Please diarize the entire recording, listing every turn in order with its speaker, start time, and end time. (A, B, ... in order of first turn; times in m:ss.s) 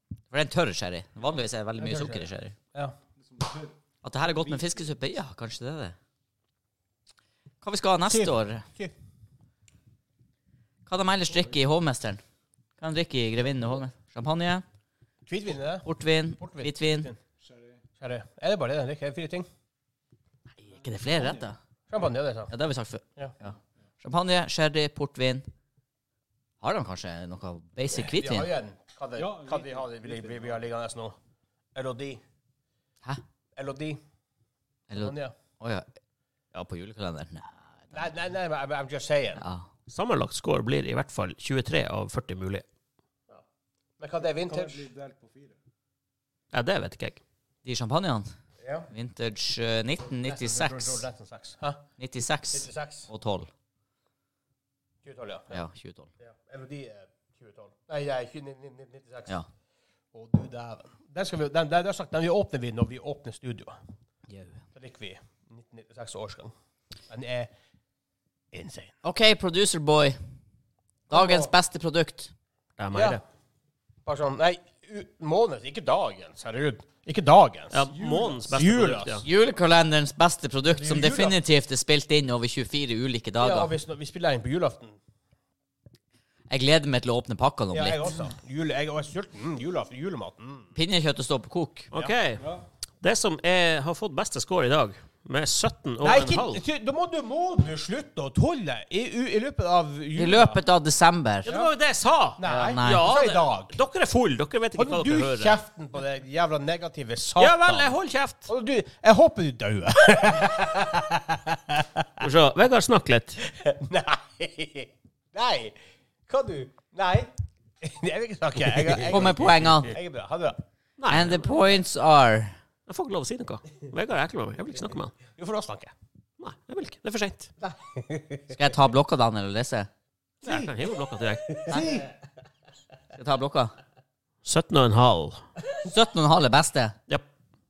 0:00.3-0:02.5 A
0:01.8-0:03.0 B
0:03.2-0:04.9 C
0:04.0-0:06.0 A
0:07.6-0:08.6 A
0:08.1-0:08.9 B
0:10.8-0:12.2 A
0:12.8-0:14.6 A
0:15.2-0:15.9 B
0:15.8-0:17.1 A
0:16.4-0:17.2 B
0:17.4-0:17.8 C
0:18.0-0:19.5 B
0:20.6-0:21.6 A
0:20.7-0:21.5 C
0:21.9-0:22.5 B
0:22.5-0:25.5 A
0:26.6-0:28.5 A
0:27.9-0:31.1 B
0:29.2-0:30.6 C
0:31.7-0:32.2 B
0:33.5-0:34.0 B
0:34.9-0:35.9 A
0:34.9-0:35.3 B
0:36.5-0:38.0 A
0:37.9-0:39.4 B
0:39.4-0:39.7 A
0:39.9-0:42.6 D
0:44.0-0:44.9 B
0:44.3-0:45.6 C
0:46.5-0:47.2 D
0:47.6-0:48.3 A
0:48.6-0:48.9 B
0:48.9-0:51.0 A
0:50.2-0:51.8 B
0:52.0-0:53.5 A
0:52.5-0:53.1 B
0:55.0-0:55.6 B
0:55.5-0:56.1 A
0:56.2-0:59.4 B
1:00.1-1:03.8 B
1:04.3-1:04.6 A
1:04.7-1:06.5 B
1:07.1-1:07.5 B
1:08.5-1:08.9 B
1:09.0-1:10.2 A
1:11.1-1:11.5 B
1:11.1-1:12.3 A
1:12.8-1:13.2 D
1:12.9-1:13.2 B
1:14.0-1:17.8 B
1:17.7-1:19.2 D
1:17.9-1:18.7 C
1:18.5-1:19.2 B
1:19.2-1:23.7 A
1:20.7-1:21.4 B
1:23.4-1:25.0 B
1:26.5-1:28.1 A
1:27.7-1:30.7 B
1:30.7-1:31.9 A
1:31.9-1:32.4 D
1:32.4-1:32.6 C
1:33.0-1:36.6 D
1:36.0-1:40.6 B
1:40.2-1:41.5 A
1:41.4-1:45.6 D
1:42.4-1:43.8 B
1:42.4-1:43.1 A
1:44.8-1:47.9 B
1:47.4-1:48.5 D
1:48.5-1:52.2 B
1:52.2-1:53.4 D
1:53.4-2:00.6 B
1:59.0-2:00.0 A
2:01.0-2:01.6 D
2:01.1-2:02.5 A
2:02.9-2:05.2 D
2:05.4-2:05.9 B
2:06.4-2:07.5 D
2:07.6-2:08.7 B
2:08.5-2:09.9 A
2:10.4-2:10.7 B
2:10.4-2:11.7 D
2:11.4-2:12.1 B
2:11.7-2:12.1 C
2:13.1-2:13.7 A
2:14.4-2:15.5 D
2:15.8-2:16.9 A